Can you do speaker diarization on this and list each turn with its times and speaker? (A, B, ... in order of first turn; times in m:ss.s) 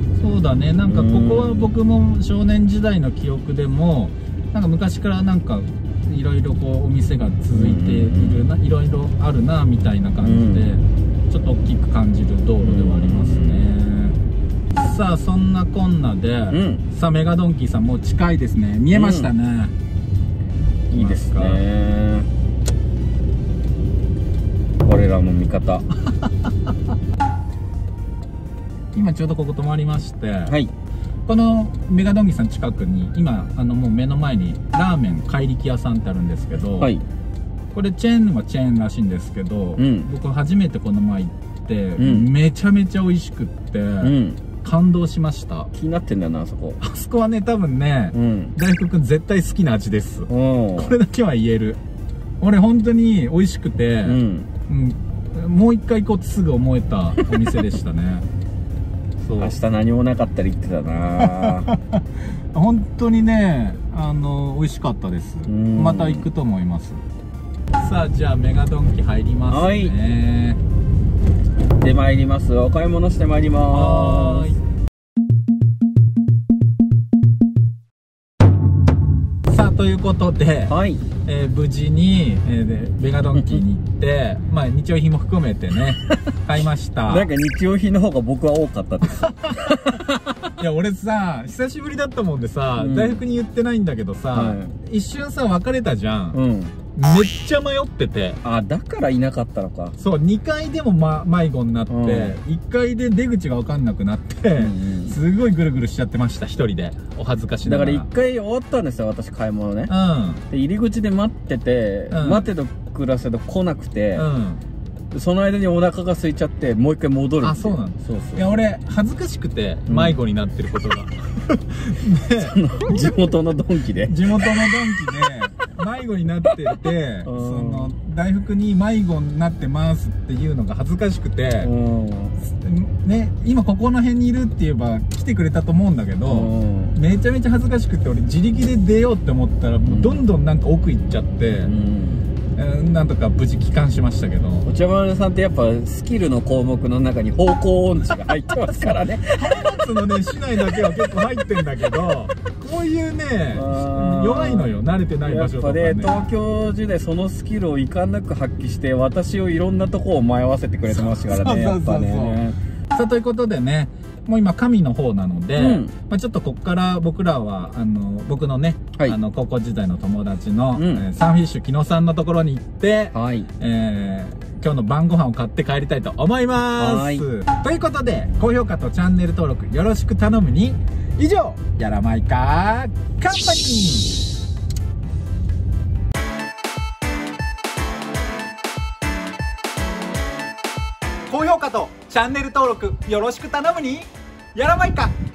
0:00.2-0:14.2 A
0:00.8-0:01.7 B
0:07.5-0:08.4 B
0:10.2-0:10.7 B
0:12.6-0:13.7 B
0:14.7-0:19.7 A
0:16.5-0:16.8 B
0:18.9-0:19.3 B
0:20.9-0:22.3 B
0:20.9-0:21.6 A
0:24.8-0:25.9 B
0:28.9-0:30.5 A
0:30.5-0:30.7 B
0:31.2-0:37.0 A
0:36.8-0:37.0 B
0:37.7-0:45.7 A
0:39.8-0:40.1 B
0:42.0-0:42.3 B
0:44.0-0:44.4 B
0:45.7-0:46.8 B
0:46.8-0:51.8 A
0:48.1-0:48.6 B
0:50.3-0:51.0 B
0:52.4-0:58.2 A
0:54.0-0:54.5 B
0:59.2-0:59.6 A
0:59.4-1:01.7 B
1:01.2-1:02.0 A
1:02.5-1:07.0 A
1:05.5-1:06.3 B
1:07.8-1:10.6 A
1:09.5-1:09.9 B
1:11.8-1:14.6 B
1:13.7-1:14.6 A
1:19.5-1:20.7 A
1:20.7-1:21.0 B
1:21.2-1:27.3 A
1:23.4-1:23.6 B
1:27.1-1:30.1 B
1:29.2-1:30.0 A
1:30.6-1:36.4 A
1:32.8-1:33.2 B
1:34.3-1:34.7 B
1:36.3-1:36.7 B
1:36.9-1:38.4 A
1:38.4-1:40.0 B
1:40.0-1:48.1 A
1:41.9-1:42.3 B
1:44.6-1:45.2 B
1:47.6-1:49.9 B
1:49.9-1:50.4 A
1:50.5-1:54.2 B
1:52.1-1:52.5 A
1:54.1-1:54.6 A
1:55.1-1:58.6 B
1:57.4-2:03.3 A
1:59.9-2:00.2 B
2:02.4-2:04.9 B
2:04.0-2:11.7 A
2:07.2-2:07.9 B
2:11.6-2:12.4 B
2:12.4-2:21.7 A
2:16.2-2:17.0 B
2:19.8-2:20.2 B
2:21.6-2:22.2 B
2:22.5-2:24.7 A
2:24.6-2:29.6 B
2:28.8-2:36.3 A
2:33.5-2:42.6 B
2:40.9-3:04.2 A
2:45.5-2:45.9 B
2:50.8-2:51.0 B
2:53.1-2:53.5 B
2:56.8-2:57.2 B
3:11.3-3:15.1 A